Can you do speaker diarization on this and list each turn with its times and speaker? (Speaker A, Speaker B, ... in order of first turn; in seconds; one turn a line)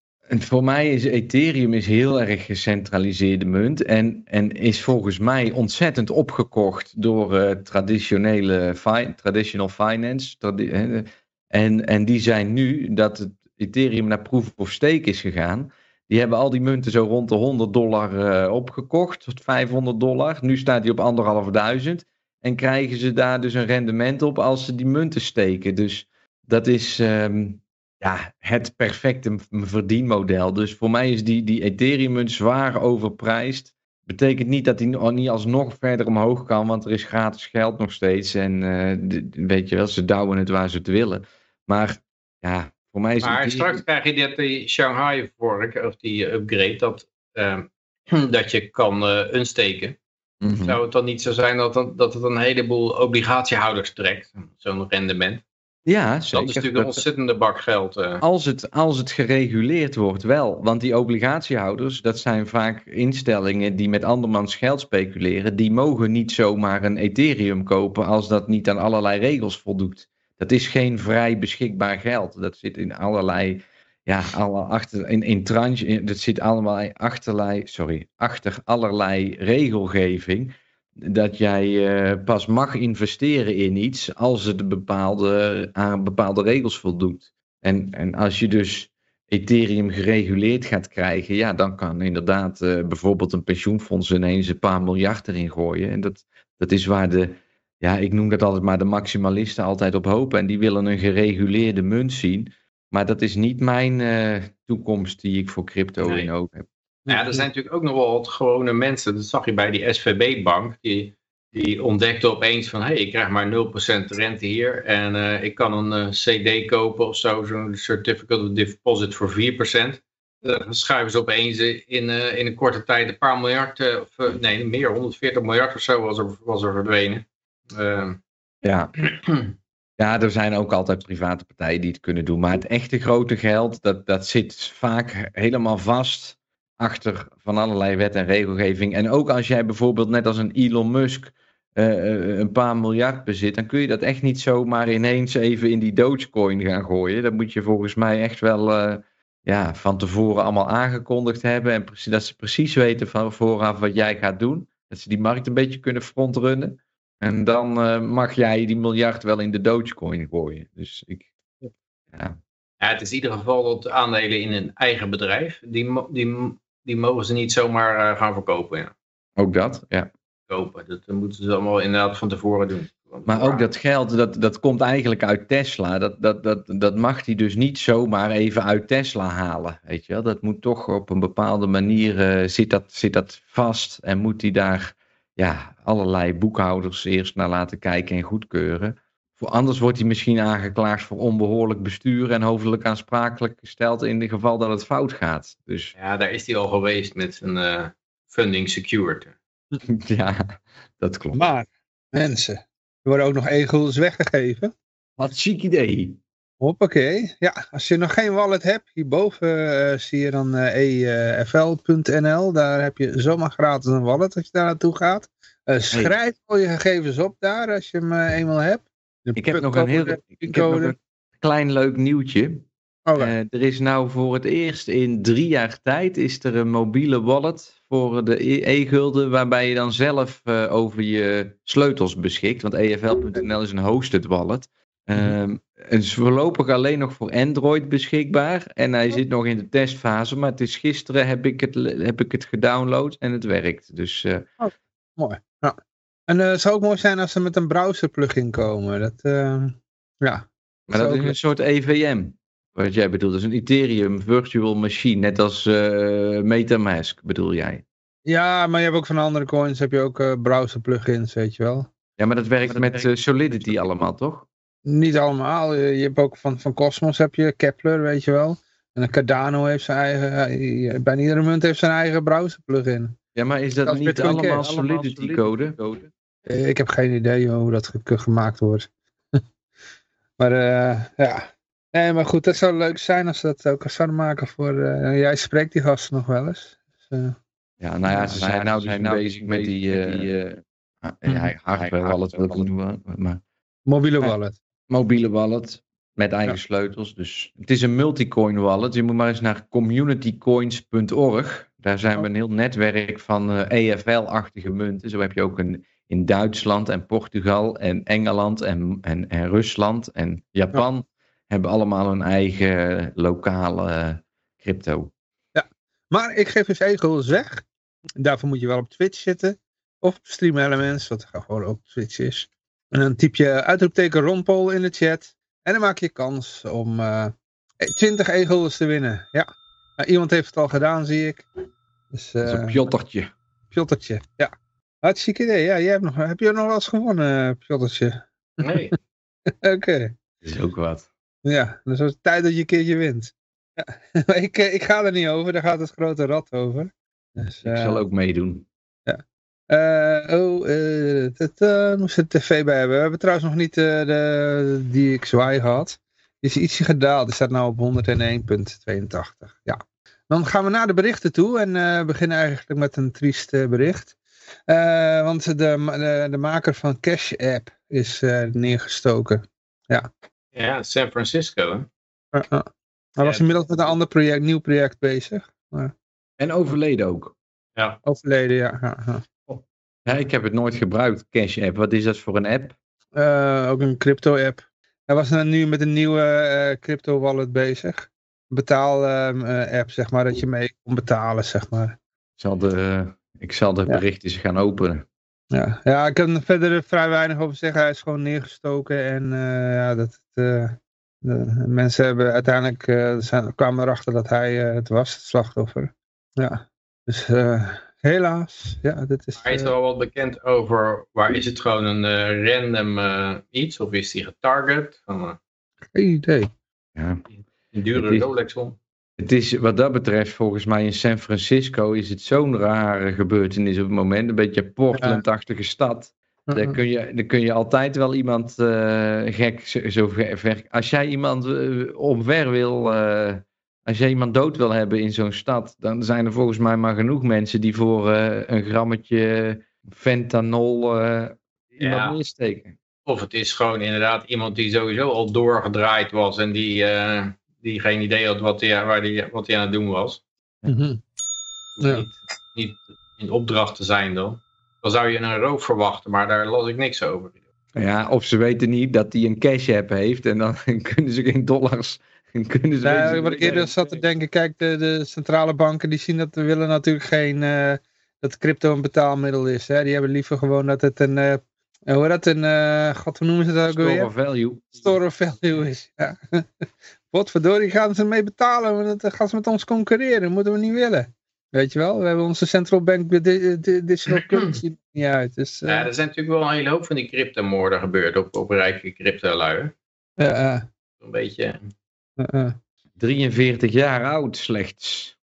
Speaker A: 0.3-43.8
Speaker B: 43.2-50.0
Speaker A: 50.4-50.8
Speaker B: 50.6-55.4
Speaker A: 55.9-57.0
Speaker B: 56.3-58.2
Speaker A: 58.2-106.6
Speaker B: 106.0-106.3
Speaker C: 107.1-107.4
Speaker B: 107.1-128.2
Speaker A: 128.6-128.9
Speaker B: 129.2-129.5
Speaker A: 130.0-162.4
Speaker B: 162.8-168.9
Speaker A: 169.4-170.1
Speaker B: 170.5-173.6
Speaker A: 173.3-195.9
Speaker B: 195.9-199.3
Speaker A: 199.9-200.4
Speaker A: 201.0-201.4
Speaker C: 201.3-204.7
Speaker A: 205.2-206.2
Speaker C: 206.6-220.9
Speaker A: 219.3-244.5
Speaker C: 223.1-223.3
Speaker C: 244.6-245.8
Speaker C: 246.3-251.3
Speaker A: 250.9-257.8
Speaker C: 258.3-261.9
Speaker A: 262.2-264.4
Speaker B: 262.7-263.1
Speaker C: 264.9-273.1
Speaker A: 273.3-276.0
Speaker C: 273.8-275.4
Speaker C: 276.5-278.9
Speaker C: 280.4-287.3
Speaker A: 287.8-293.4
Speaker C: 288.1-288.5
Speaker C: 291.2-291.5
Speaker B: 292.0-292.4
Speaker C: 293.9-294.6
Speaker A: 294.9-315.1
Speaker C: 315.5-317.6
Speaker C: 318.2-329.5
Speaker C: 330.0-331.4
Speaker C: 332.1-332.8
Speaker A: 332.4-333.3
Speaker C: 333.7-334.5
Speaker C: 335.0-338.9
Speaker B: 338.6-338.9
Speaker C: 339.6-340.1
Speaker A: 340.4-341.1
Speaker C: 341.4-348.0
Speaker A: 347.6-348.7
Speaker C: 349.1-364.1
Speaker C: 364.7-370.1
Speaker B: 370.5-371.9
Speaker C: 372.3-375.9
Speaker B: 373.2-373.5
Speaker A: 376.4-377.3
Speaker C: 378.0-379.5
Speaker A: 380.1-382.8
Speaker C: 383.1-392.0
Speaker A: 392.4-395.1
Speaker C: 395.5-409.7
Speaker B: 409.4-415.4
Speaker C: 415.9-416.5
Speaker A: 416.9-417.2
Speaker B: 417.7-418.8
Speaker A: 417.9-418.3
Speaker A: 419.2-442.7
Speaker C: 424.9-425.2
Speaker C: 426.5-426.8
Speaker B: 441.8-442.2
Speaker B: 443.1-450.2
Speaker C: 450.7-451.0
Speaker B: 451.8-457.4
Speaker A: 457.8-463.7
Speaker C: 462.8-474.1
Speaker B: 462.9-464.0
Speaker A: 473.6-474.8
Speaker C: 474.8-485.9
Speaker B: 484.1-484.3
Speaker B: 485.6-489.7
Speaker C: 490.2-490.6
Speaker B: 491.0-491.6
Speaker C: 492.2-492.6
Speaker A: 493.0-495.1